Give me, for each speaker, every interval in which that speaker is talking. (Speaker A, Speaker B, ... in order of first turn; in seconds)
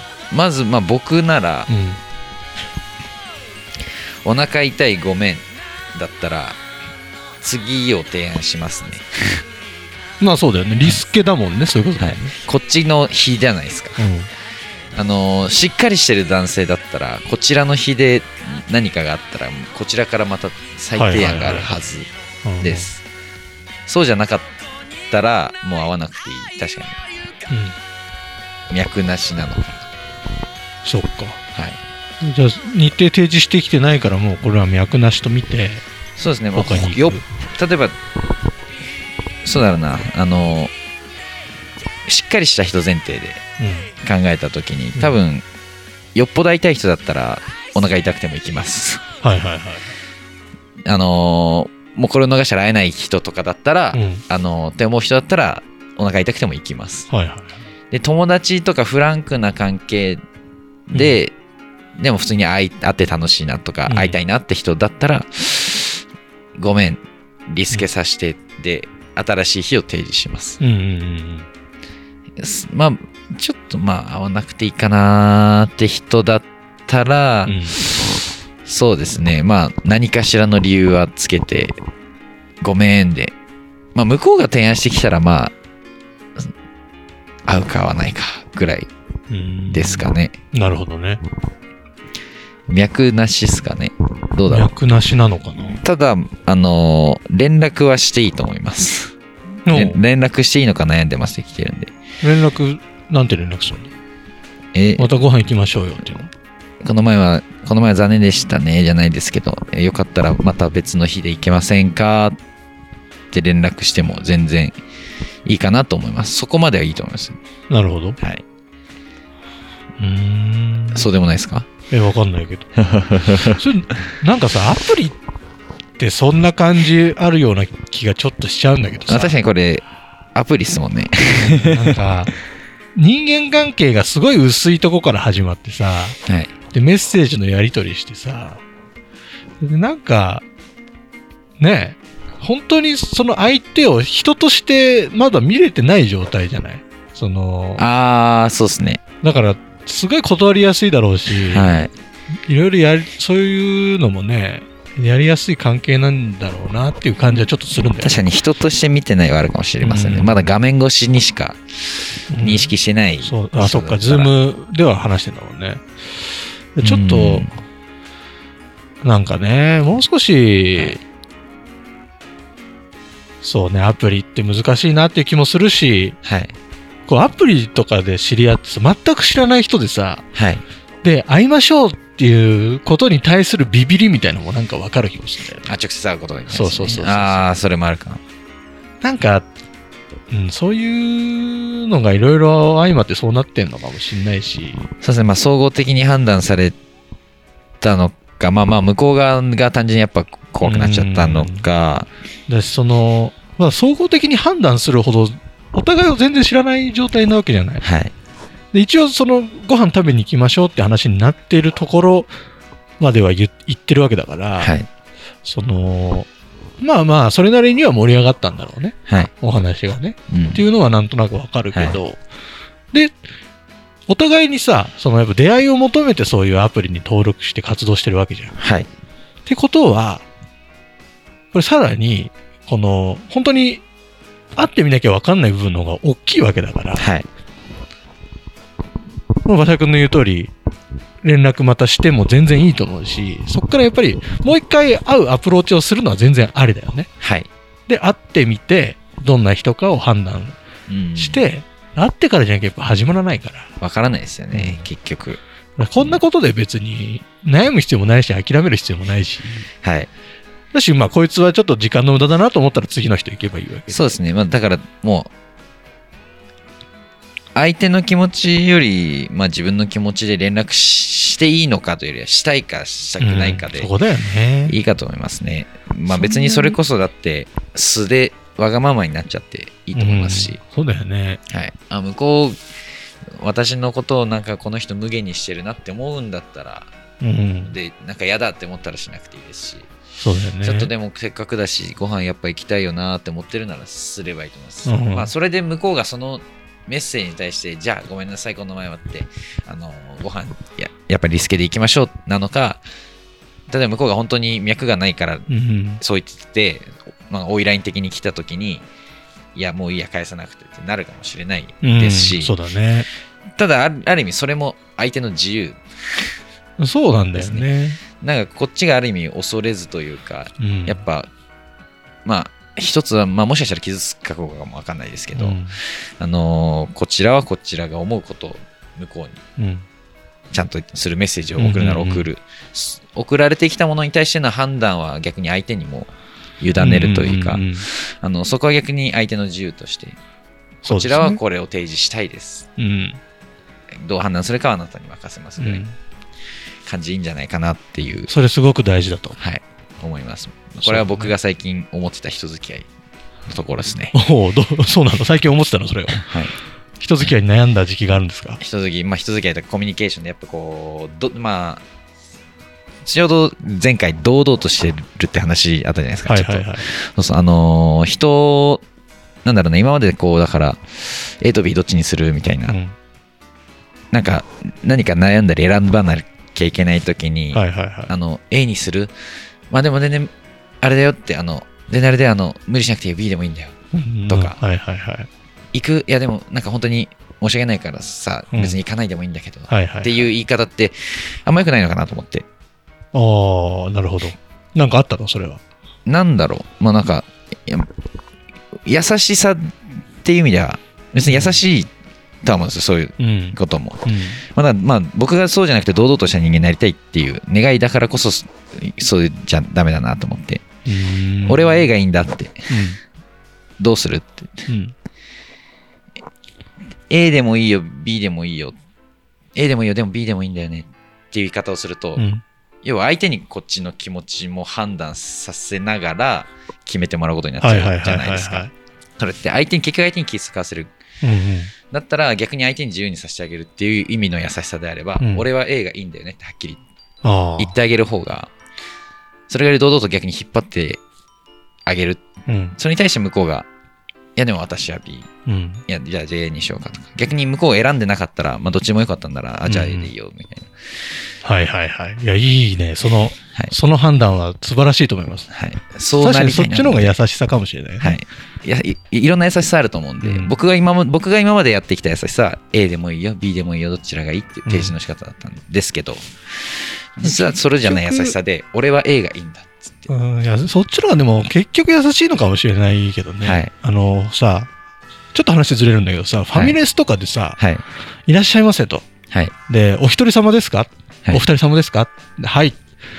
Speaker A: 0.3-1.7, 4.2-6.6, 7.4-9.4, 12.0-14.1, 14.9-22.1, 22.6-23.0, 23.9-24.5, 25.1-27.0, 28.7-29.8, 31.5-31.8, 36.2-38.0, 39.4-40.7, 42.1-43.4, 44.0-45.5, 46.1-49.0, 50.9-57.1, 57.9-60.2, 60.9-61.3, 62.0-66.0, 66.6-70.6, 72.4-78.0, 78.7-81.8, 82.6-83.3, 84.0-85.5, 87.5-88.9, 89.7-90.4, 92.7-94.8, 95.6-99.1, 99.7-101.9, 104.7-105.1, 106.8-112.4, 113.3-114.8, 115.5-117.4, 120.9-121.7, 122.8-123.6, 129.1-129.8, 130.3-131.9, 136.3-136.5, 147.8-149.0, 151.4-151.9, 157.2-161.6, 162.3-164.3, 166.8-167.6, 176.2-176.5, 180.3-180.6, 185.7-188.2, 195.0-196.8, 197.8-202.1, 207.8-208.1, 214.6-214.9, 220.3-220.7, 221.7-222.0, 228.6-228.9, 236.9-237.3, 247.2-247.5, 250.9-251.5, 253.8-255.4, 259.8-260.1, 263.9-265.3, 267.6-273.9, 274.7-280.6, 281.5-282.6, 283.4-286.9, 287.6-289.9, 290.6-302.8, 303.7-305.5, 306.0-308.9, 309.6-312.6, 313.6-315.8, 317.4-321.3, 322.2-329.4, 330.5-340.2, 340.9-342.7, 344.0-345.8, 346.9-348.3, 349.4-352.9, 353.5-354.1, 356.1-356.6, 358.6-361.8, 363.1-368.8, 369.4-372.8, 374.1-379.1, 379.7-380.3, 380.8-383.8, 384.3-384.6, 385.7-392.4, 396.1-397.9, 398.9-401.9, 402.4-410.7, 411.4-412.8, 413.8-414.7, 417.1-418.8, 419.6-422.2, 422.8-428.7, 429.2-430.9, 431.9-436.8, 437.6-438.5, 439.5-441.0, 441.9-443.7, 444.4-445.3, 445.9-450.7, 455.5-457.2, 458.0-470.1, 473.4-473.7, 476.5-476.8, 477.6-477.8
Speaker B: 1.7-2.0, 10.2-12.3, 14.0-14.3, 21.0-21.7, 22.4-22.9, 27.5-27.8, 30.9-31.4, 32.2-35.8, 36.6-37.2, 43.6-43.9, 49.2-49.9, 53.9-54.2, 57.1-57.6, 63.9-64.2, 70.6-71.5, 77.5-77.8, 89.3-89.9, 90.5-91.2, 94.5-95.8, 99.7-100.0, 102.2-103.9, 105.0-106.3, 117.7-118.2, 120.0-121.0, 121.9-122.7, 123.6-125.2, 126.0-129.4, 131.4-132.3, 132.9-136.2, 136.7-138.6, 139.6-140.4, 141.6-147.8, 149.2-151.8, 152.5-158.2, 159.8-160.5, 162.3-162.6, 163.2-165.8, 166.8-167.4, 169.0-171.0, 173.4-176.2, 177.1-180.2, 181.0-185.7, 186.5-187.5, 189.0-189.5, 190.3-194.8, 200.7-201.6, 202.5-207.8, 208.7-212.3, 213.0-214.7, 215.5-216.3, 216.8-222.2, 224.1-228.5, 229.5-230.2, 231.5-233.8, 234.6-237.0, 239.5-240.5, 241.2-247.1, 247.9-250.6, 251.2-253.7, 254.5-254.8, 255.8-259.7, 260.7-264.1, 273.2-274.8, 276.2-276.7, 279.9-281.4, 287.2-287.7, 290.2-290.9, 294.9-295.3, 305.5-306.0, 311.8-313.1, 316.8-318.0, 320.6-321.0, 325.4-325.8, 329.6-329.9, 331.6-332.3, 336.8-337.9, 340.9-341.4, 342.8-343.2, 345.6-346.0, 348.3-349.4, 350.8-351.3, 354.2-356.2, 357.0-358.6, 366.2-366.8, 372.7-372.9, 377.5-378.1, 383.9-385.3, 389.7-390.1, 393.1-395.6, 403.2-404.4, 410.9-411.9, 412.7-413.0, 414.7-414.9, 422.2-422.4, 427.6-428.7, 431.2-431.7, 435.2-435.5, 437.2-437.7, 442.5-442.8, 445.5-445.8, 449.7-450.1, 451.4-455.5, 456.2-458.2, 460.2-460.5, 464.7-465.0, 467.2-468.3, 470.1-474.7, 475.3-477.6, 478.3-479.1, 479.7-482.8